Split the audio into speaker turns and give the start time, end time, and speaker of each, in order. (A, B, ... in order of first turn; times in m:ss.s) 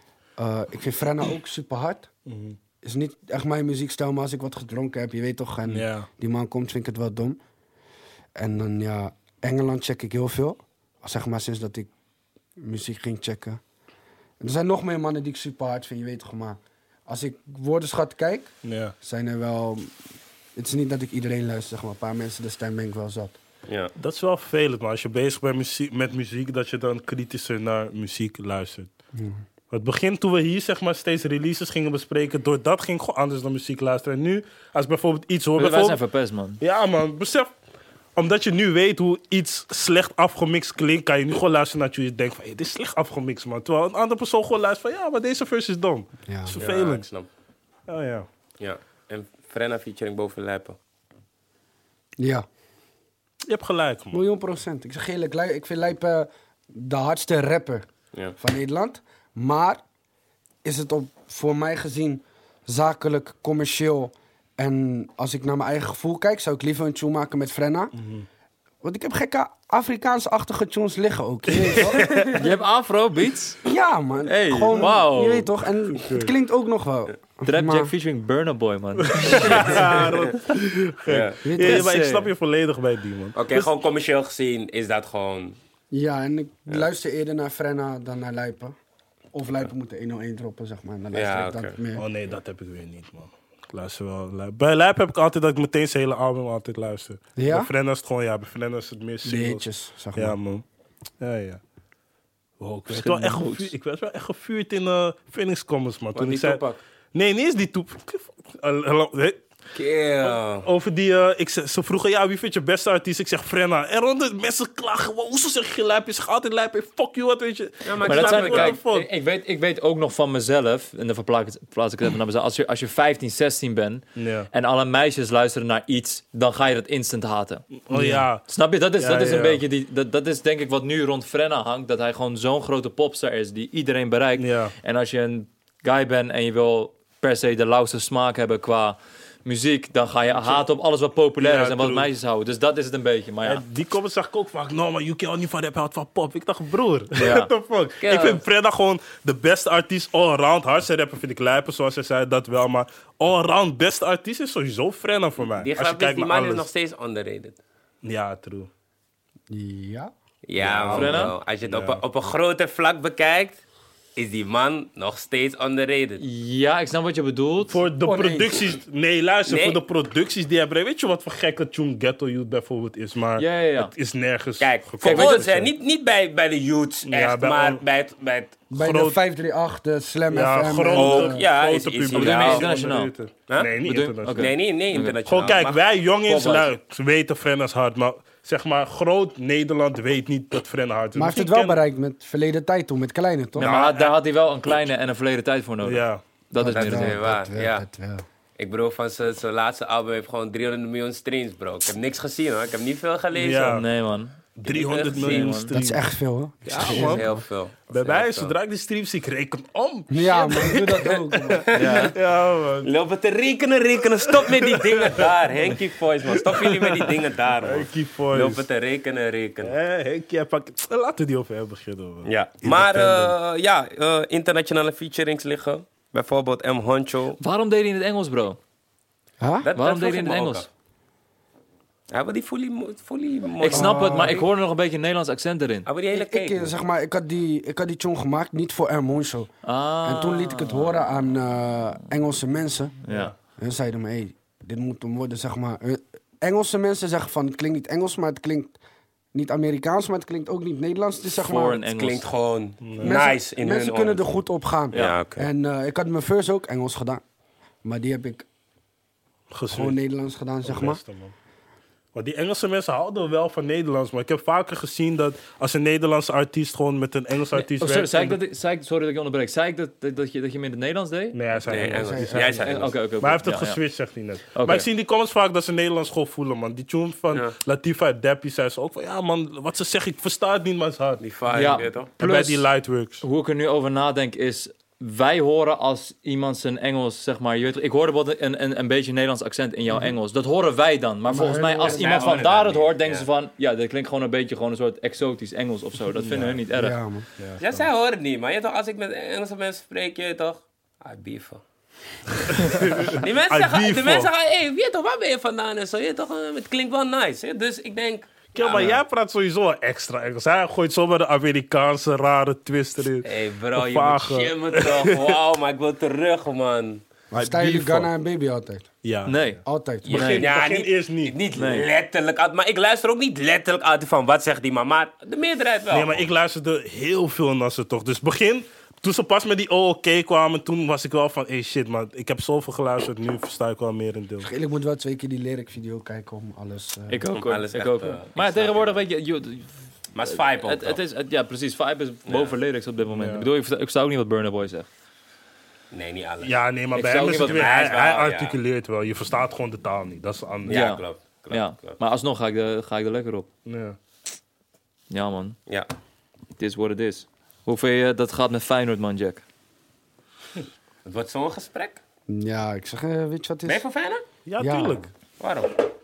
0:00.4-0:02.1 A
0:02.2-0:02.6 B
0:02.8-0:07.4 A
0:05.7-0:06.1 B
0:08.4-0:11.9 A
0:12.6-0:13.6 A
0:14.4-0:19.9 A
0:18.6-0:18.9 B
0:20.5-0:23.4 A
0:23.7-0:23.9 C
0:24.0-0:28.9 B
0:29.1-0:29.4 A
0:29.7-0:36.0 B
0:35.6-0:36.6 D
0:36.6-0:37.5 B
0:38.1-0:47.0 B
0:46.3-0:46.5 A
0:46.5-0:47.3 C
0:47.9-0:48.3 B
0:48.6-0:50.8 C
0:52.2-0:52.4 A
0:53.4-0:54.2 B
0:54.1-0:57.8 A
0:58.4-0:59.8 A
1:00.6-1:07.9 A
1:08.0-1:08.2 B
1:08.8-1:12.4 A
1:11.5-1:12.4 B
1:12.3-1:13.6 D
1:13.6-1:17.9 A
1:14.2-1:14.9 C
1:14.8-1:15.5 D
1:15.9-1:16.3 B
1:17.4-1:19.9 D
1:19.0-1:23.7 B
1:21.1-1:21.4 C
1:21.4-1:21.9 A
1:21.6-1:22.3 D
1:23.3-1:25.6 C
1:25.9-1:28.7 A
1:29.3-1:32.0 A
1:31.1-1:31.8 C
1:32.0-1:40.6 B
1:37.4-1:37.7 A
1:39.2-1:40.4 A
1:41.2-1:41.6 B
1:42.6-1:46.6 B
1:42.9-1:43.7 D
1:46.1-1:46.8 C
1:47.1-1:49.4 B
1:49.7-1:50.7 C
1:50.2-1:59.1 B
1:57.8-1:58.8 C
1:58.0-2:23.6 D
2:04.2-2:04.5 B
2:07.9-2:08.4 B
2:09.0-2:09.6 B
2:14.4-2:14.7 B
2:21.4-2:22.1 B
2:23.4-2:36.7 B
2:27.2-2:27.5 D
2:28.0-2:28.4 C
2:35.6-2:37.6 C
2:38.0-2:38.7 B
2:39.5-2:40.1 A
2:40.4-2:43.6 C
2:40.6-2:42.0 B
2:40.9-2:41.3 D
2:44.2-2:46.2 C
2:46.2-2:47.8 D
2:47.7-2:55.7 B
2:48.0-2:48.6 A
2:49.5-2:49.8 C
2:53.4-2:53.9 D
2:54.6-2:58.6 C
2:55.0-2:55.5 D
2:57.0-2:57.8 B
2:58.7-3:01.4 A
2:58.7-2:59.2 B
3:00.3-3:04.5 B
3:00.9-3:02.7 C
3:02.1-3:03.1 D
3:03.8-3:05.2 D
3:04.3-3:06.7 C
3:05.2-3:11.8 B
3:11.1-3:13.7 A
3:13.6-3:14.2 B
3:13.6-3:17.2 D
3:15.8-3:16.2 B
3:16.6-3:18.2 A
3:16.7-3:17.8 C
3:18.6-3:23.8 C
3:23.3-3:23.8 B
3:23.7-3:24.4 D
3:24.6-3:25.6 C
3:24.6-3:26.0 B
3:25.1-3:25.7 D
3:25.7-3:27.3 A
3:26.6-3:27.3 B
3:26.8-3:28.5 C
3:27.9-3:32.9 B
3:30.1-3:31.6 A
3:30.5-3:30.8 C
3:31.6-3:32.1 C
3:31.7-3:32.1 D
3:32.8-3:39.7 C
3:34.4-3:35.2 B
3:36.5-3:38.6 B
3:39.6-3:43.3 B
3:42.2-3:47.4 C
3:47.4-3:48.6 D
3:49.4-3:49.7 A
3:49.6-3:50.7 C
3:49.8-3:50.7 D
3:52.1-3:54.4 C
3:53.6-3:55.9 D
3:53.7-3:54.4 A
3:55.8-3:56.7 C
3:56.1-3:59.5 A
3:59.6-4:01.0 D
4:00.0-4:03.0 A
4:03.0-4:03.3 D
4:03.6-4:08.8 A
4:09.3-4:11.8 A
4:11.4-4:12.3 D
4:11.9-4:14.4 C
4:12.8-4:13.2 B
4:13.0-4:17.2 A
4:14.9-4:15.5 C
4:17.8-4:18.4 A
4:19.5-4:20.0 B
4:19.7-4:21.0 A
4:20.6-4:21.3 B
4:22.1-4:28.4 B
4:27.5-4:31.4 D
4:31.3-4:41.2 B
4:31.7-4:33.0 C
4:32.0-4:32.6 A
4:32.4-4:33.8 D
4:34.5-4:34.8 D
4:41.2-4:42.1 C
4:41.5-4:42.7 D
4:42.2-4:43.2 B
4:43.2-4:57.0 D
4:51.2-4:52.4 A
4:51.8-4:53.3 C
4:56.2-4:56.6 B
4:56.7-4:57.2 A
4:57.4-4:57.8 B
4:57.6-5:01.6 C
5:02.5-5:04.3 B
5:03.0-5:09.0 C
5:08.5-5:15.3 B
5:13.2-5:17.0 C
5:17.3-5:18.9 A
5:17.3-5:18.1 B
5:19.0-5:19.4 B
5:19.2-5:20.5 D
5:19.6-5:20.2 A
5:20.0-5:26.2 C
5:20.1-5:21.4 B
5:21.6-5:21.9 D
5:25.9-5:34.5 B
5:34.4-5:37.2 A
5:37.1-5:39.7 D
5:37.3-5:39.0 C
5:40.1-5:41.0 C
5:40.2-5:44.9 D
5:42.3-5:42.5 C
5:43.1-5:43.5 B
5:45.9-5:46.6 C
5:46.4-5:50.8 B
5:46.9-5:47.8 D
5:47.3-5:48.6 C
5:50.7-5:52.0 C
5:50.7-5:53.5 D
5:53.6-5:54.0 B
5:55.1-5:55.6 D
5:56.6-5:59.4 D
6:01.0-6:02.0 C
6:02.3-6:03.8 A
6:03.6-6:04.2 C
6:04.4-6:05.1 B
6:04.6-6:05.1 A
6:05.4-6:05.8 C